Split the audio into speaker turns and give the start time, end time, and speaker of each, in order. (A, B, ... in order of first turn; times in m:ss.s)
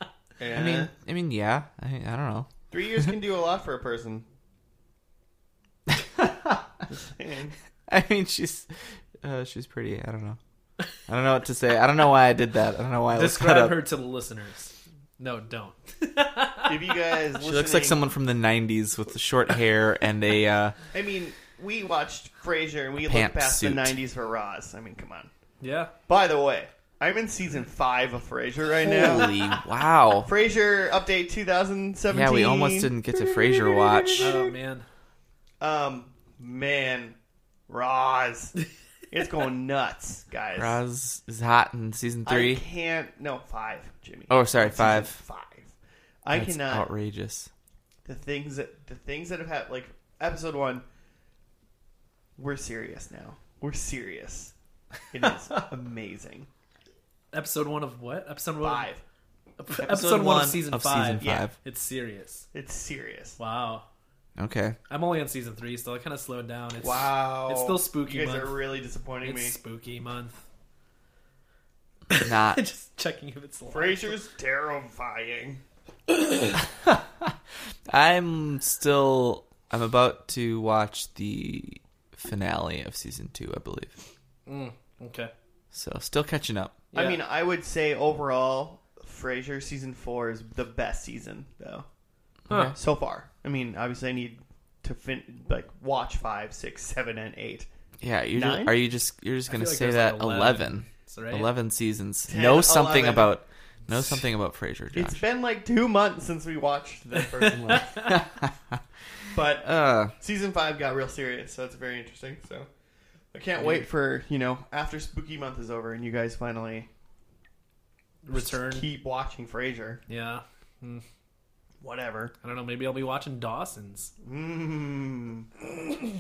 0:00.4-0:00.9 A
0:00.5-0:02.5 B
0:02.7-0:04.2 A
0:05.9-0:06.6 B
0:06.9-0:07.6 A
0:07.9-0:10.4 B
0:11.1-0:13.8 B
0:13.1-0:16.8 C
0:16.7-0:18.0 A
0:17.4-0:20.8 B
0:20.9-0:25.3 A
0:23.0-0:24.0 B
0:25.6-0:25.9 C
0:26.1-0:29.4 A
0:28.8-0:30.3 B
0:30.2-0:34.5 A
0:32.1-0:34.4 B
0:34.2-0:34.9 C
0:35.6-0:37.2 A
0:37.7-0:38.6 A
0:39.1-0:40.8 A
0:40.6-0:42.6 B
0:42.2-0:45.7 A
0:44.3-0:45.2 B
0:46.2-0:46.9 A
0:46.3-0:47.5 B
0:48.0-0:50.8 A
0:52.4-0:54.6 A
0:55.1-0:56.5 A
0:57.3-0:58.9 C
0:58.6-0:59.0 A
0:59.6-1:02.5 C
0:59.8-1:01.6 B
1:01.2-1:01.5 A
1:02.5-1:03.4 A
1:03.4-1:03.9 C
1:04.4-1:04.8 B
1:04.9-1:08.6 C
1:06.8-1:09.6 A
1:09.2-1:10.4 C
1:12.1-1:14.1 C
1:12.2-1:12.6 B
1:13.7-1:15.6 A
1:16.9-1:17.3 B
1:17.9-1:24.0 B
1:24.5-1:25.3 C
1:25.7-1:26.8 B
1:26.9-1:27.2 C
1:26.9-1:31.9 A
1:32.5-1:32.8 C
1:32.5-1:32.8 B
1:32.8-1:37.7 A
1:38.0-1:45.2 B
1:38.3-1:38.7 A
1:39.5-1:41.5 C
1:42.3-1:43.3 A
1:44.9-1:48.1 A
1:47.4-1:48.2 C
1:47.7-1:48.8 B
1:49.3-1:52.7 A
1:49.6-1:50.1 B
1:53.3-1:56.9 A
1:58.2-1:58.9 C
1:58.3-2:00.0 A
2:00.1-2:01.0 C
2:01.8-2:02.3 A
2:02.4-2:04.1 C
2:04.2-2:05.5 A